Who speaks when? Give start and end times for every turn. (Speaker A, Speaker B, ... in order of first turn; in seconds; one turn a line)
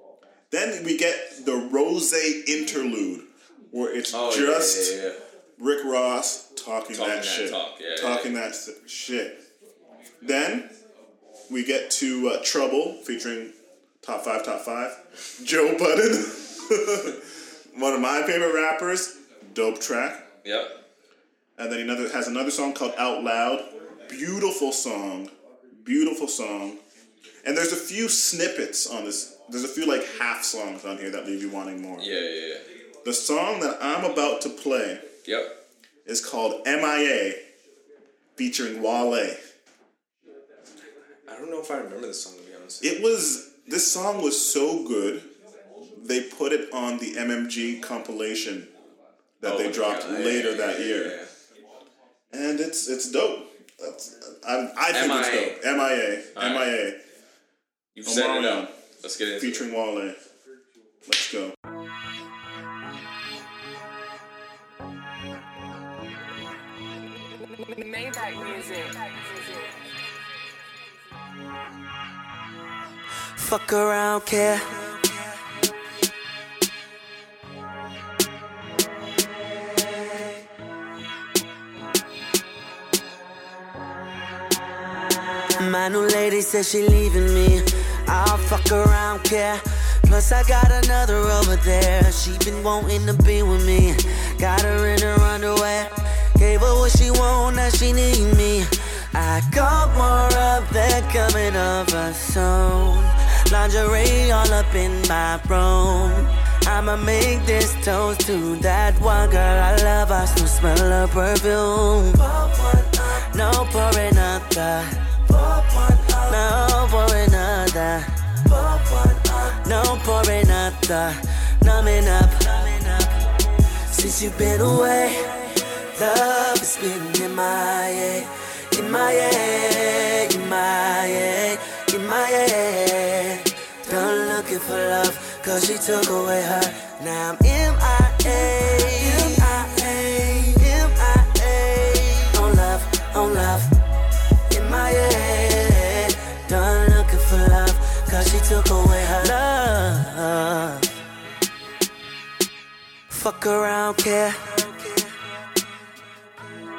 Speaker A: 0.5-5.0
Speaker B: 4.1-5.2
Speaker A: 5.6-9.4
Speaker B: 6.9-8.3
Speaker A: 10.2-10.7
Speaker A: 11.5-17.2
Speaker A: 17.7-20.2
Speaker B: 20.4-20.8
Speaker A: 21.6-26.8
Speaker A: 27.4-32.1
Speaker B: 32.0-32.6
Speaker A: 33.0-35.0
Speaker B: 35.2-35.6
Speaker A: 36.0-37.4
Speaker A: 38.4-39.4
Speaker B: 41.3-42.9
Speaker A: 42.8-45.3
Speaker A: 46.0-48.7
Speaker A: 49.4-51.1
Speaker B: 49.4-51.3
Speaker A: 52.3-57.0
Speaker B: 54.9-55.6
Speaker B: 56.3-56.7
Speaker B: 58.0-59.7
Speaker A: 58.0-58.7
Speaker A: 59.4-60.2
Speaker A: 61.0-61.5
Speaker C: 67.6-69.7
Speaker D: 73.4-75.0
Speaker D: 85.5-123.2
Speaker D: 123.9-143.7
Speaker D: 144.5-150.9
Speaker D: 153.1-155.2